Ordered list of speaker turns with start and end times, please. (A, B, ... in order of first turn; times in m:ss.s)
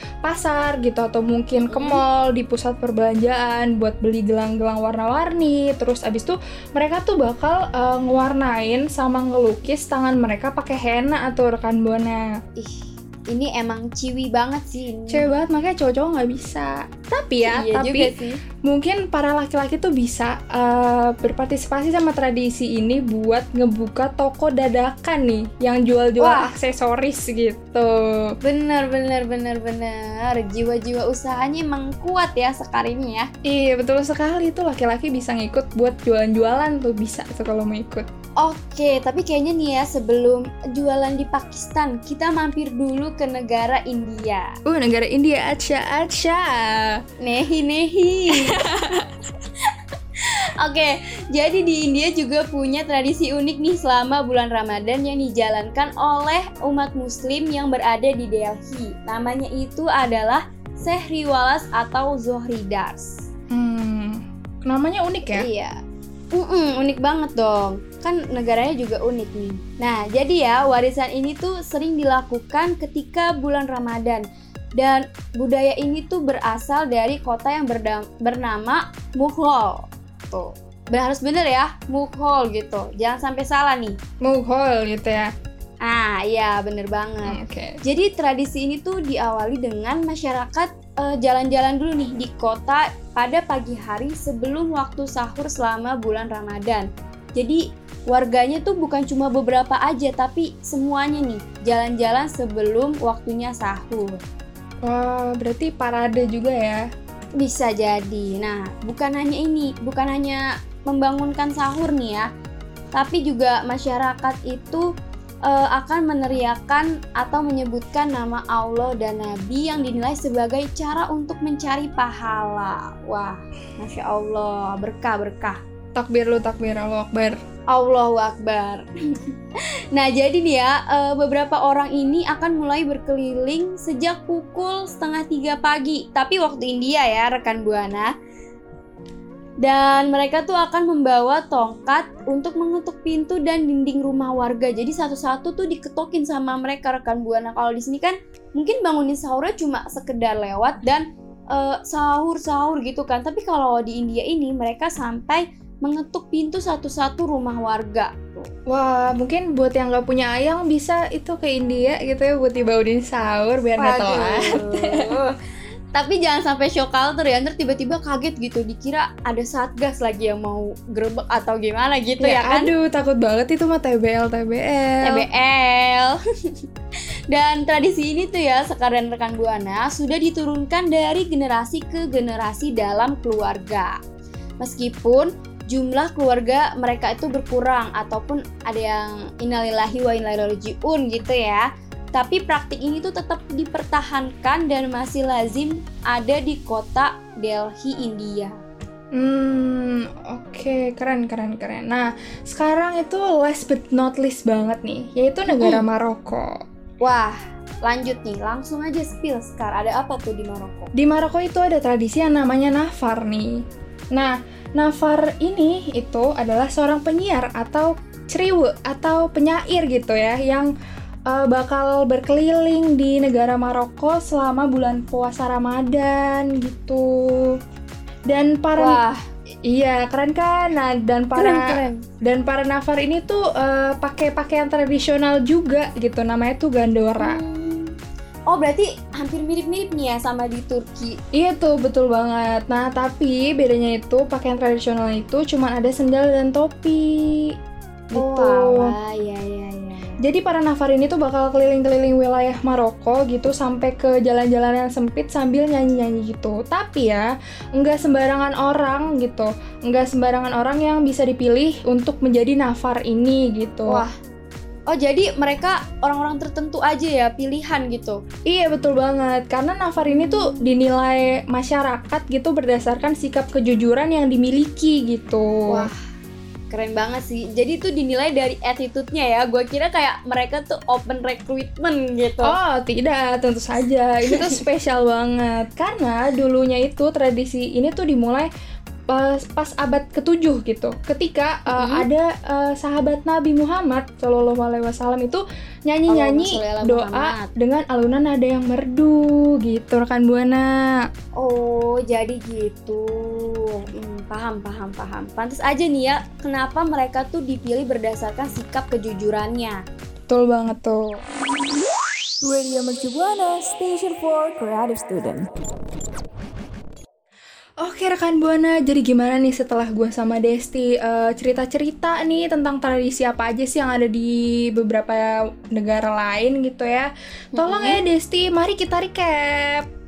0:00.2-0:12.3 A
0:01.7-0:02.0 B
0:12.6-0:15.3 B
0:15.1-0:28.3 A
0:17.4-0:18.4 B
0:26.2-0:26.5 B
0:28.4-0:33.3 B
0:33.4-0:38.1 A
0:38.4-0:44.5 B
0:44.6-0:47.0 A
0:47.2-0:48.6 B
0:48.3-0:49.1 A
0:50.2-1:03.2 B
1:03.5-1:05.5 A
1:05.3-1:05.7 B
1:06.3-1:14.2 B
1:14.8-1:24.0 B
1:24.2-1:25.3 A
1:25.8-1:44.2 B
1:27.3-1:27.7 A
1:44.8-1:46.9 A
1:47.4-1:52.2 B
1:52.9-1:54.8 B
1:55.4-2:05.6 B
2:06.0-2:07.4 A
2:07.7-2:09.3 B
2:09.9-2:18.1 B
2:19.6-2:38.5 B
2:38.7-2:45.2 A
2:43.8-2:45.3 B
2:45.9-2:52.7 B
2:52.2-2:55.2 A
2:55.0-2:56.2 B
2:57.3-3:04.0 B
3:04.6-3:18.6 B
3:19.1-3:26.6 A
3:25.5-3:25.8 B
3:27.0-3:30.9 B
3:30.9-3:40.7 A
3:41.3-3:47.6 A
3:48.3-3:49.0 A
3:48.8-3:49.2 B
3:49.6-3:57.4 A
3:51.3-3:52.0 B
3:57.2-3:58.0 B
3:58.5-4:01.2 B
4:01.3-4:07.5 A
4:08.1-4:08.9 A
4:08.2-4:10.2 B
4:10.2-4:24.0 A
4:23.9-4:24.1 B
4:24.9-4:28.2 B
4:28.5-4:35.9 A
4:30.0-4:30.7 B
4:35.7-4:36.0 B
4:36.7-4:42.5 B
4:42.4-4:48.5 A
4:44.3-4:44.6 B
4:49.1-5:01.0 A
4:51.7-4:52.0 B
4:56.1-4:57.5 B
5:01.4-5:09.8 B
5:10.3-5:11.2 A
5:12.4-5:15.5 C
5:17.8-5:29.9 A
5:27.5-5:28.0 B